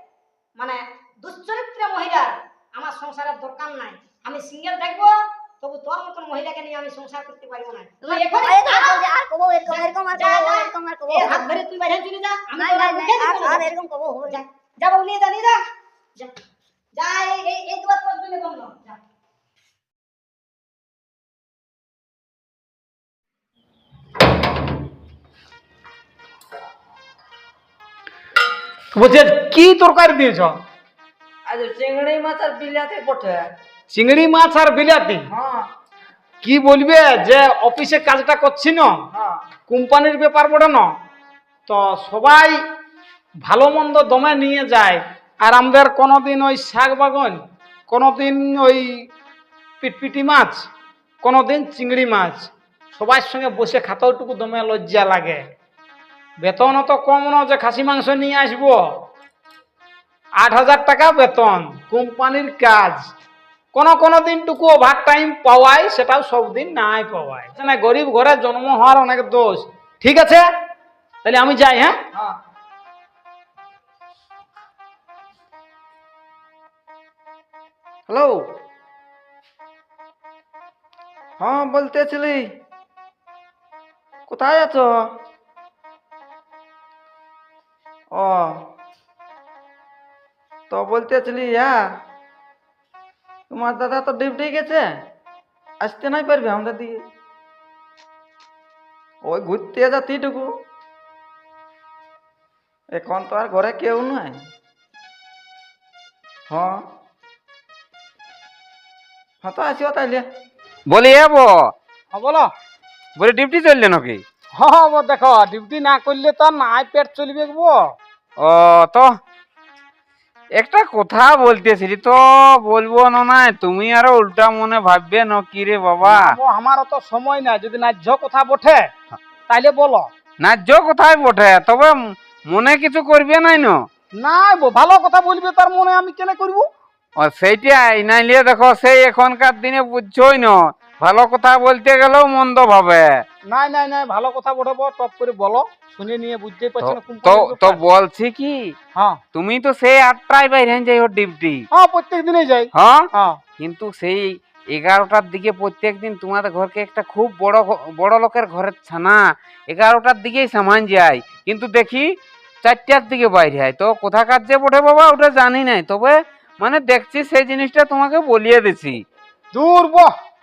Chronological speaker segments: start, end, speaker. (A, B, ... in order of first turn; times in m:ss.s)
0:00.6-0:09.0 A
0:08.0-0:11.6 B
0:09.7-0:10.7 A
0:11.2-0:13.6 A
0:12.5-0:14.4 B
0:14.3-0:15.6 A
0:17.0-0:19.0 A
0:28.9-0:30.5 C
0:31.4-0:33.5 D
0:33.9-0:35.3 C
0:35.3-0:35.7 D
0:36.4-0:39.0 C
0:39.1-0:39.4 D
0:39.7-0:40.9 C
0:41.6-0:42.6 C
0:43.4-0:49.0 C
0:49.8-0:50.6 C
0:51.2-0:55.4 C
0:56.4-0:58.8 C
1:00.4-1:03.1 C
1:03.7-1:10.4 C
1:11.2-1:12.0 C
1:18.1-1:18.5 D
1:21.4-1:22.5 D
1:24.3-1:25.1 D
1:28.1-1:28.7 D
1:30.7-1:31.8 D
1:33.5-1:35.0 D
1:35.8-1:37.0 D
1:39.2-1:40.6 D
1:42.9-1:44.4 D
1:46.5-1:46.8 D
1:49.4-1:50.2 D
1:50.9-1:51.5 E
1:52.1-1:52.5 C
1:53.2-1:54.2 E
1:54.5-1:57.8 C
1:58.4-1:59.1 E
2:00.5-2:06.3 E
2:06.0-2:08.9 C
2:09.5-2:10.1 C
2:10.4-2:13.8 E
2:14.1-2:16.6 C
2:17.2-2:23.1 E
2:23.4-2:27.8 C
2:26.8-2:28.7 E
2:28.9-2:29.2 C
2:29.3-2:31.6 E
2:31.7-2:33.4 C
2:32.8-2:33.0 E
2:33.6-2:42.1 E
2:42.6-2:49.0 E
2:49.5-2:50.1 C